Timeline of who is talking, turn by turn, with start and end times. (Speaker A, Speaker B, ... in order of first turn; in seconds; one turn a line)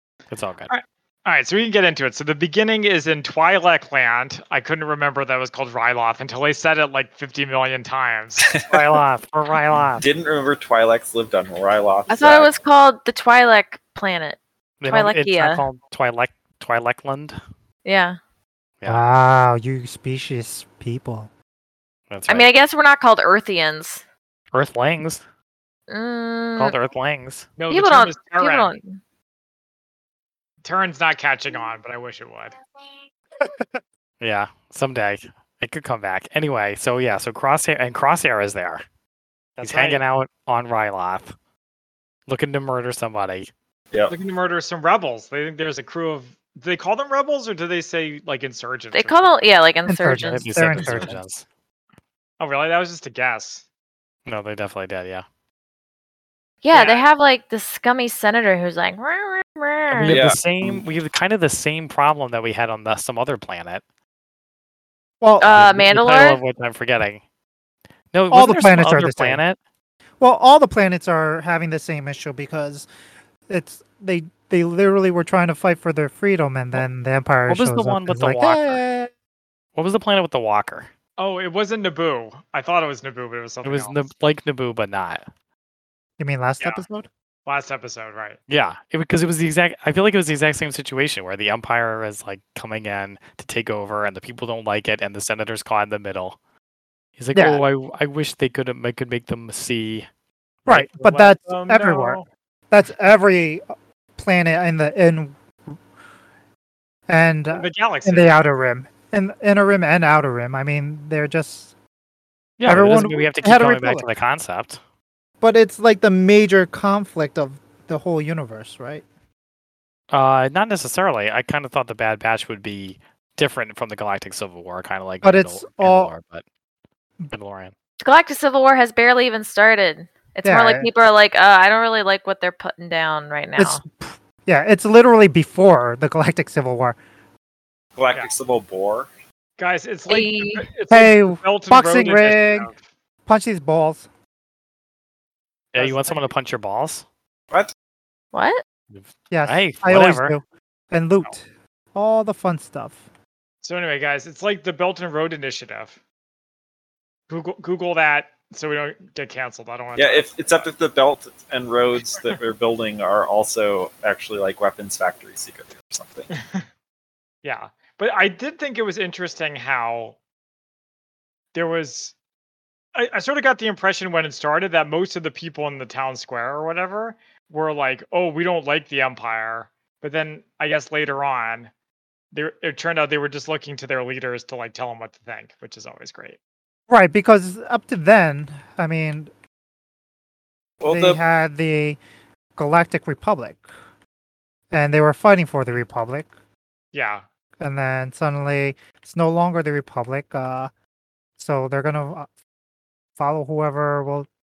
Speaker A: 0.3-0.7
Speaker B: 0.7-8.5
Speaker C: 8.4-8.9
Speaker A: 8.7-10.0
Speaker C: 10.0-12.5
Speaker D: 12.1-15.6
Speaker A: 14.8-17.4
Speaker D: 17.8-18.2
Speaker E: 18.9-21.3
Speaker A: 22.1-22.5
Speaker D: 22.3-24.0
Speaker A: 24.5-25.2
Speaker D: 25.9-26.8
Speaker A: 26.6-27.5
Speaker B: 27.6-28.7
Speaker D: 27.7-29.0
Speaker B: 30.6-32.6
Speaker E: 33.4-33.8
Speaker A: 34.2-38.8
Speaker B: 39.6-40.0
Speaker A: 39.6-41.3
Speaker A: 42.3-43.5
Speaker B: 44.1-49.3
Speaker D: 48.9-50.9
Speaker E: 49.9-51.2
Speaker A: 50.2-51.4
Speaker B: 52.4-53.6
Speaker A: 54.2-55.2
Speaker D: 56.6-60.2
Speaker B: 56.7-57.0
Speaker A: 59.9-63.8
Speaker C: 60.0-60.8
Speaker E: 65.2-65.5
Speaker D: 65.4-66.4
Speaker A: 65.5-67.2
Speaker A: 68.1-69.6
Speaker E: 68.3-69.4
Speaker E: 70.2-72.9
Speaker E: 73.5-79.1
Speaker A: 77.5-78.8
Speaker A: 79.8-80.9
Speaker B: 81.2-84.0
Speaker A: 83.6-85.2
Speaker E: 86.2-87.1
Speaker B: 87.5-88.4
Speaker A: 88.5-96.4
Speaker A: 97.2-100.1
Speaker E: 97.3-97.6
Speaker E: 100.7-103.6
Speaker B: 100.7-102.2
Speaker E: 104.2-105.7
Speaker E: 107.1-111.7
Speaker B: 107.5-108.3
Speaker A: 112.6-114.8
Speaker E: 112.7-114.1
Speaker E: 115.4-119.0
Speaker A: 120.1-126.4
Speaker E: 125.2-126.1
Speaker A: 127.3-127.7
Speaker D: 128.0-133.8
Speaker E: 130.4-130.9
Speaker E: 133.6-137.0
Speaker C: 138.0-139.1
Speaker B: 139.6-142.8
Speaker D: 140.1-140.7
Speaker E: 140.9-142.7
Speaker E: 143.2-144.1
Speaker A: 145.7-147.0
Speaker B: 145.8-146.3
Speaker D: 148.3-148.6
Speaker A: 148.9-150.3
Speaker E: 149.3-153.0
Speaker B: 153.6-156.0
Speaker B: 157.3-160.7
Speaker C: 160.0-166.3
Speaker B: 166.3-166.6
Speaker B: 167.4-170.2
Speaker B: 171.5-172.1
Speaker B: 172.9-181.7
Speaker B: 182.3-186.4
Speaker E: 186.9-189.3
Speaker C: 190.8-191.2
Speaker E: 190.8-192.0
Speaker E: 192.6-193.7
Speaker E: 194.7-196.3
Speaker B: 196.9-197.2
Speaker E: 197.6-200.7
Speaker E: 201.4-202.3
Speaker E: 203.2-204.3